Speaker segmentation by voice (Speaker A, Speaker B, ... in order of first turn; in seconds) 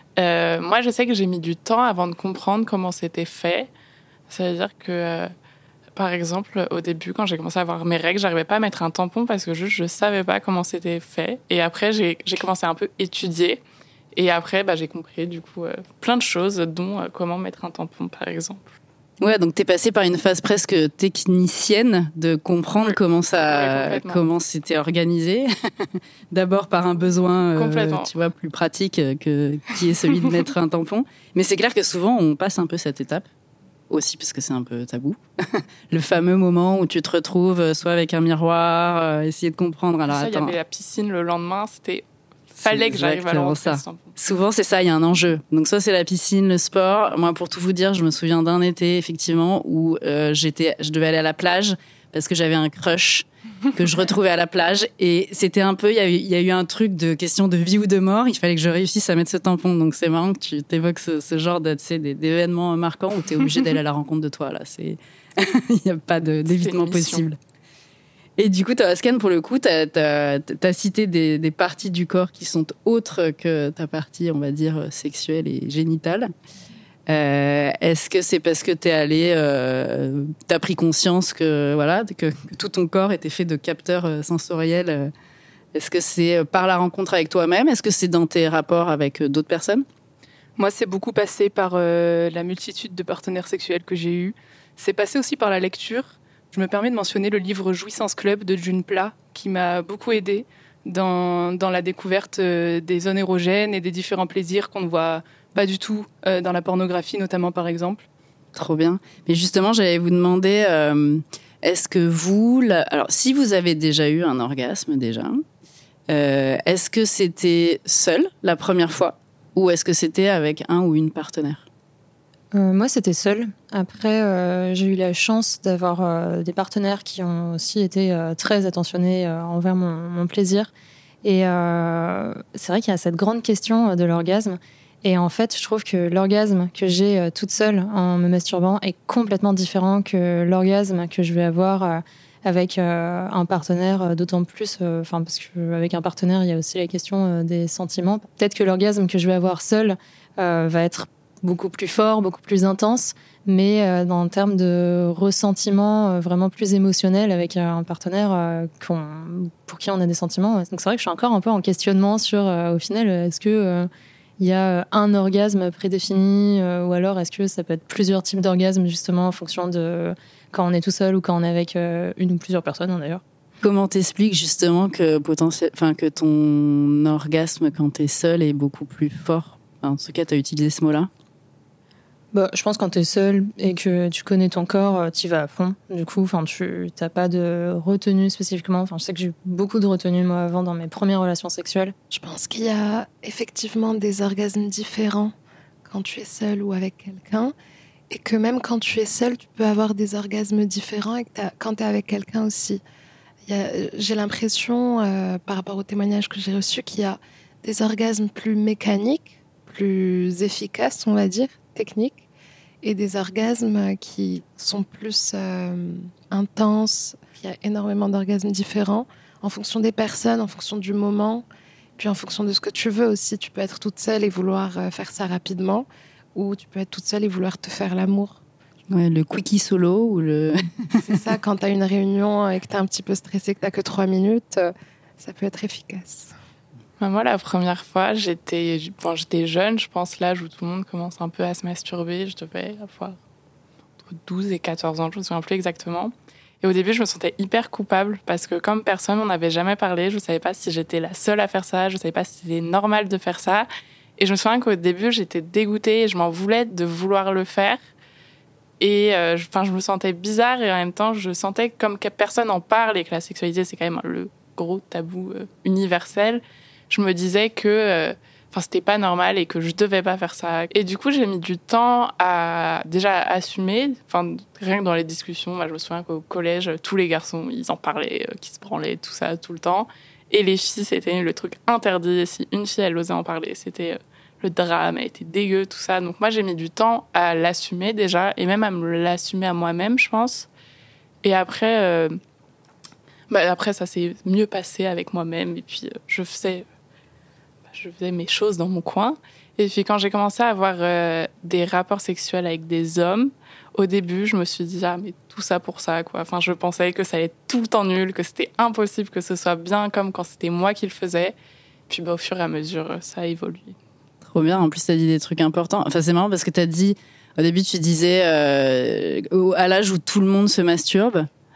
Speaker A: 0.2-3.7, 4.3-5.3, 6.0-13.6, 14.1-18.8, 23.5-24.2, 27.6-28.1, 40.1-44.1, 66.5-67.3, 237.0-243.2, 244.0-257.8, 258.8-290.5, 291.2-292.2, 293.3-296.7, 297.7-311.3, 311.9-313.8
Speaker B: 19.2-33.3, 33.9-40.6, 42.6-67.4, 68.4-76.3, 77.1-85.1, 85.7-89.8, 108.5-115.4, 116.1-121.6, 173.6-181.1, 228.9-231.1, 314.2-321.3
Speaker C: 90.6-108.0
Speaker D: 122.5-130.7, 131.2-173.2, 182.3-191.9
Speaker E: 192.1-195.3, 195.9-197.5, 198.1-202.8, 203.5-212.2, 212.8-221.4, 222.0-228.4, 231.0-236.3